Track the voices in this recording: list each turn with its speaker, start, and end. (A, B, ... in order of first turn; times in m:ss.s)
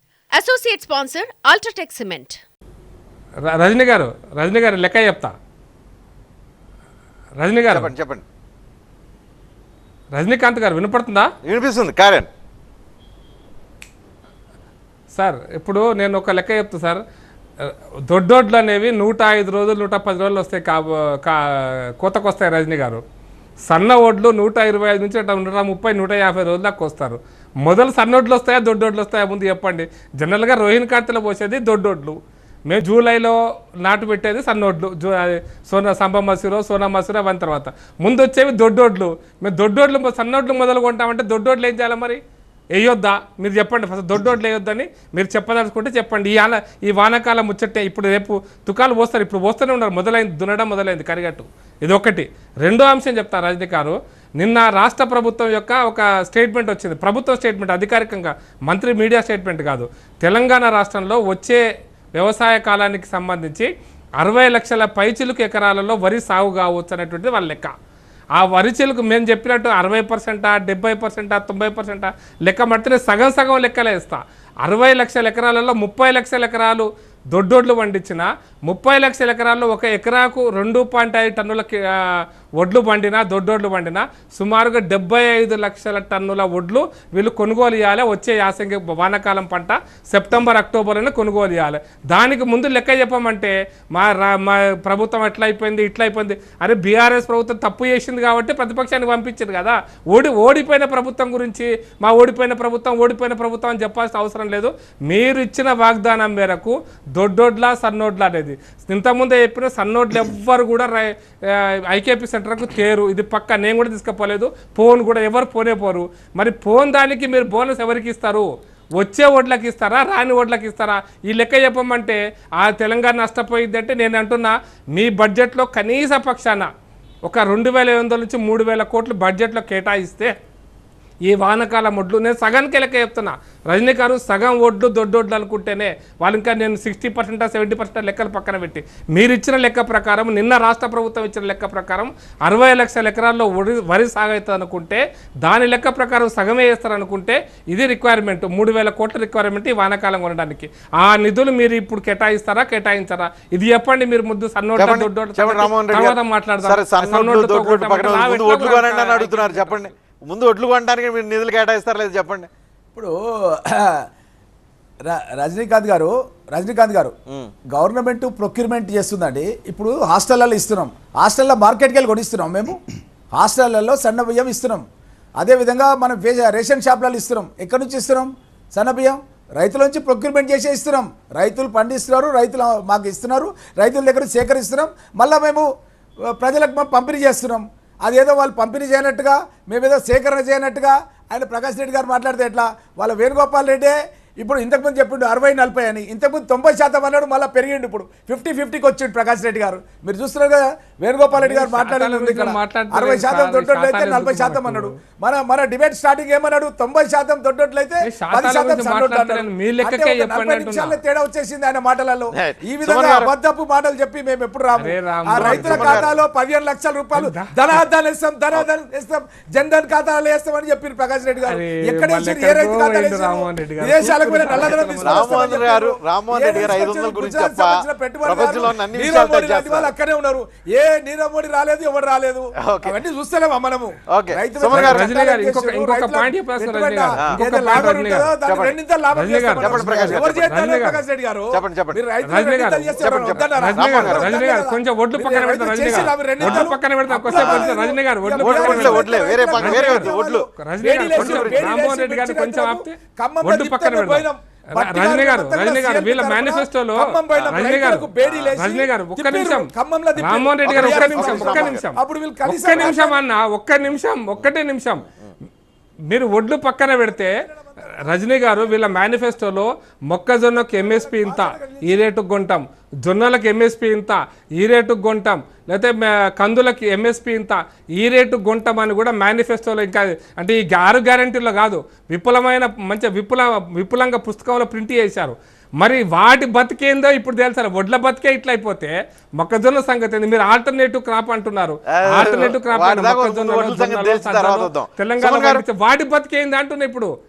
0:00.4-0:02.4 A
0:03.5-0:05.3 B
0:07.4-0:07.9 B
0:07.7-0:08.2 C
0:10.1-0:11.3 B
0:11.4-0:12.3 C
0:15.1-0:17.0 B
0:17.6-0:23.0 B
0:23.7-0:42.2 B
0:42.7-1:01.6 B
1:02.1-1:07.7 B
1:08.4-2:06.7 B
2:07.2-2:10.3 B
2:11.3-2:39.9 B
2:34.8-2:42.5 C
2:42.9-2:44.0 D
2:45.1-2:47.1 D
2:47.7-2:52.8 D
2:53.3-2:54.8 D
2:55.4-3:05.7 D
3:06.3-4:23.2 D
3:21.3-3:25.0 B
3:28.0-3:31.0 B
3:32.3-3:33.3 C
3:34.8-3:36.1 B
3:35.3-3:36.1 C
3:37.1-3:37.8 B
3:41.5-3:45.6 B
3:44.8-3:49.9 C
3:52.6-3:53.0 C
3:54.1-3:55.1 C
3:54.7-3:58.3 B
3:58.4-3:58.8 C
3:59.1-4:01.0 B
3:59.5-4:00.5 C
4:01.5-4:02.0 C
4:02.2-4:14.2 B
4:03.0-4:04.3 C
4:06.4-4:06.7 C
4:07.3-4:07.7 C
4:08.4-4:10.5 C
4:11.1-4:11.8 C
4:14.8-4:25.0 B
4:17.3-4:17.7 C
4:18.2-4:18.5 C
4:20.6-4:21.8 C
4:26.1-4:27.3 B
4:27.1-4:29.1 D
4:27.9-4:57.1 B
4:30.8-4:32.0 D
4:51.9-4:55.6 C